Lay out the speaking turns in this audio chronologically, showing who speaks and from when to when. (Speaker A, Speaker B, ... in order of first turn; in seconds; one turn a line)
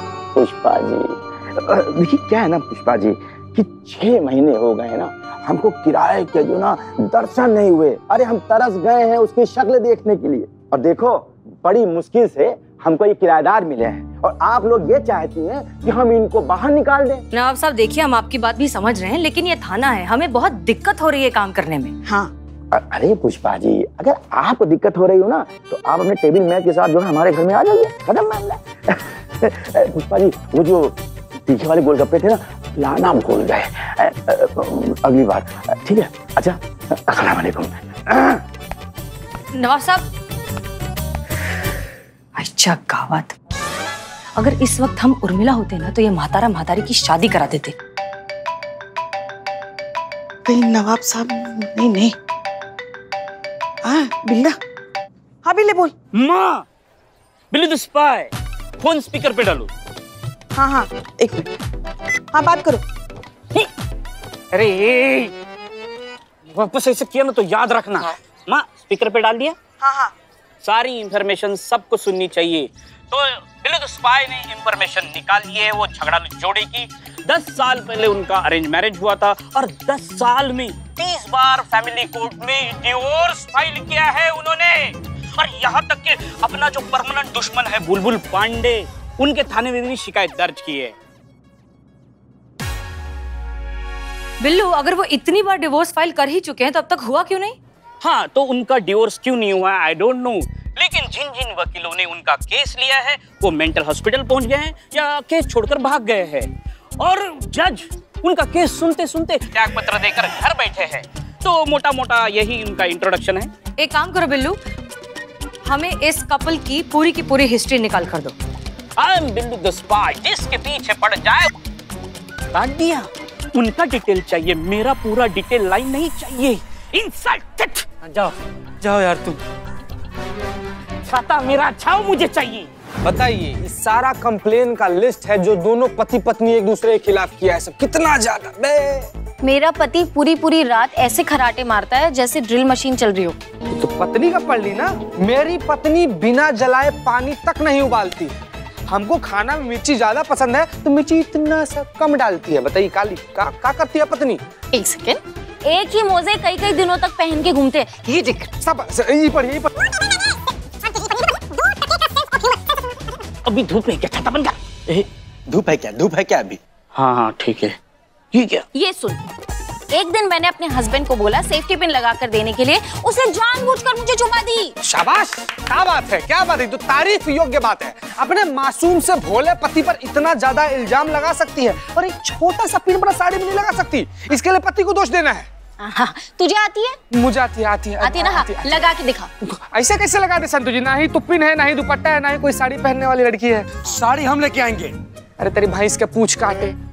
Speaker A: 0.4-17.2
Speaker B: 17.3-21.9
Speaker C: 22.1-22.3
Speaker A: 22.7-30.9
Speaker A: 31.5-38.4
Speaker B: 39.5-40.1
Speaker B: 42.4-43.4
Speaker B: 44.4-47.8
Speaker C: 50.5-52.1
Speaker C: 53.8-54.6
Speaker C: 55.4-55.9
Speaker D: 56.1-56.6
Speaker D: 57.5-59.7
Speaker C: 60.6-61.5
Speaker C: 62.3-62.8
Speaker D: 64.5-65.3
Speaker D: 66.5-69.6
Speaker C: 69.8-70.1
Speaker D: 70.6-91.0
Speaker B: 94.4-97.6
Speaker D: 98.0-113.5
Speaker B: 113.8-114.6
Speaker B: 115.7-118.3
Speaker D: 119.0-121.5
Speaker D: 122.5-127.9
Speaker E: 128.8-129.3
Speaker D: 131.1-132.7
Speaker E: 133.0-139.1
Speaker F: 139.4-143.4
Speaker E: 143.7-148.4
Speaker E: 148.9-154.4
Speaker F: 154.7-158.5
Speaker E: 158.6-159.7
Speaker D: 163.5-164.5
Speaker A: 165.5-166.6
Speaker D: 167.0-167.7
Speaker D: 168.3-168.6
Speaker F: 168.7-169.2
Speaker F: 169.9-174.7
Speaker E: 174.8-185.5
Speaker F: 185.8-187.0
Speaker E: 187.1-188.8
Speaker F: 188.0-189.3
Speaker E: 189.4-196.8